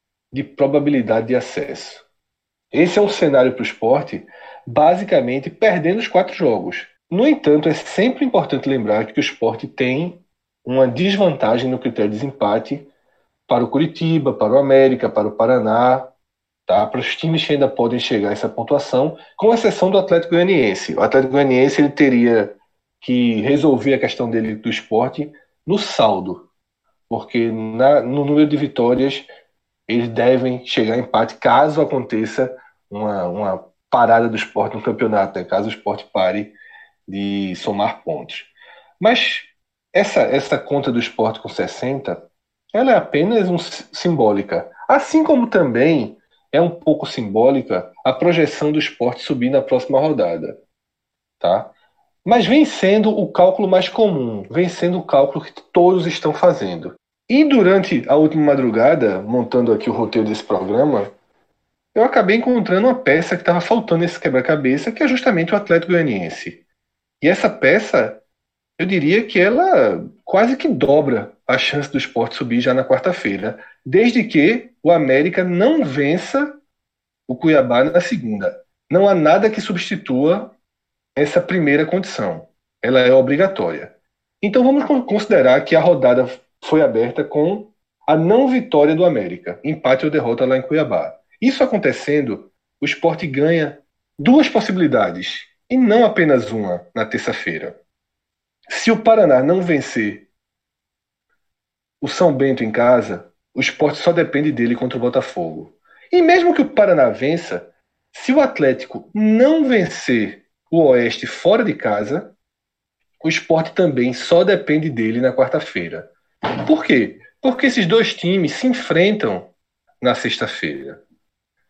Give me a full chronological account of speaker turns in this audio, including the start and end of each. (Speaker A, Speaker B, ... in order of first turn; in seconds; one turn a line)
Speaker A: 0.3-2.0
Speaker A: 2.7-12.8
Speaker A: 13.5-16.1
Speaker A: 16.7-26.4
Speaker A: 27.1-29.3
Speaker A: 29.9-36.5
Speaker A: 37.1-38.5
Speaker A: 39.0-42.2
Speaker A: 42.7-50.6
Speaker A: 51.4-51.7
Speaker A: 52.2-61.1
Speaker A: 62.0-66.6
Speaker A: 67.2-68.2
Speaker A: 68.8-76.5
Speaker A: 77.3-80.5
Speaker A: 81.2-83.9
Speaker A: 84.4-97.8
Speaker A: 98.7-100.2
Speaker A: 102.0-112.3
Speaker A: 113.2-116.1
Speaker A: 116.6-119.5
Speaker A: 120.0-121.0